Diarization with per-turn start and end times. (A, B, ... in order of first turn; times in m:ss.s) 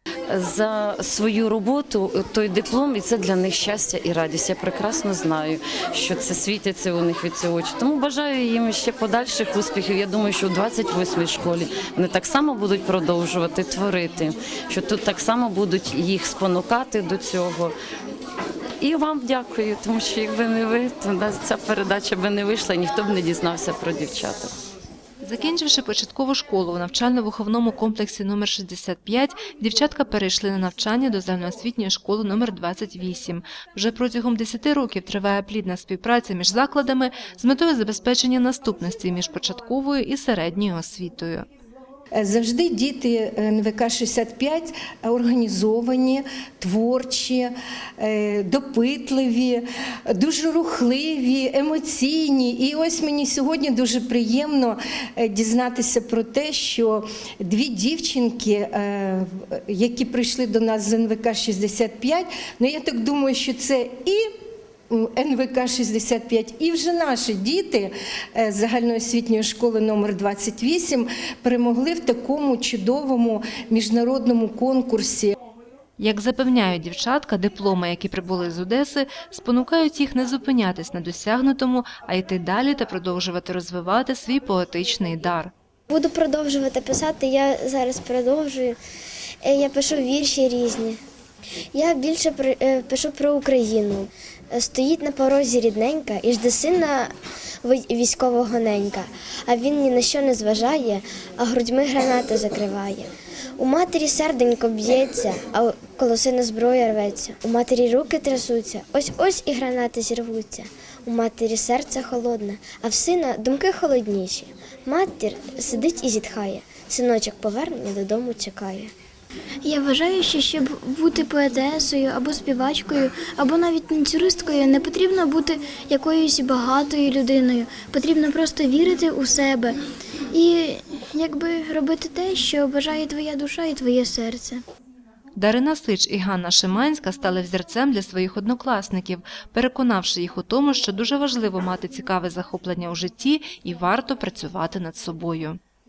0:00.3-0:17.7 A
0:18.8-0:24.5 A
0:25.2-0:41.4 B
0:42.2-1:04.3 C
1:04.9-1:15.3 C
1:16.0-1:25.5 B
1:25.9-1:28.8 D
1:29.4-1:31.0 D
1:31.7-1:37.1 D
1:37.6-1:43.1 D
1:43.6-1:58.9 D
1:59.6-2:09.8 E
2:10.3-2:14.6 E
2:15.4-2:25.6 B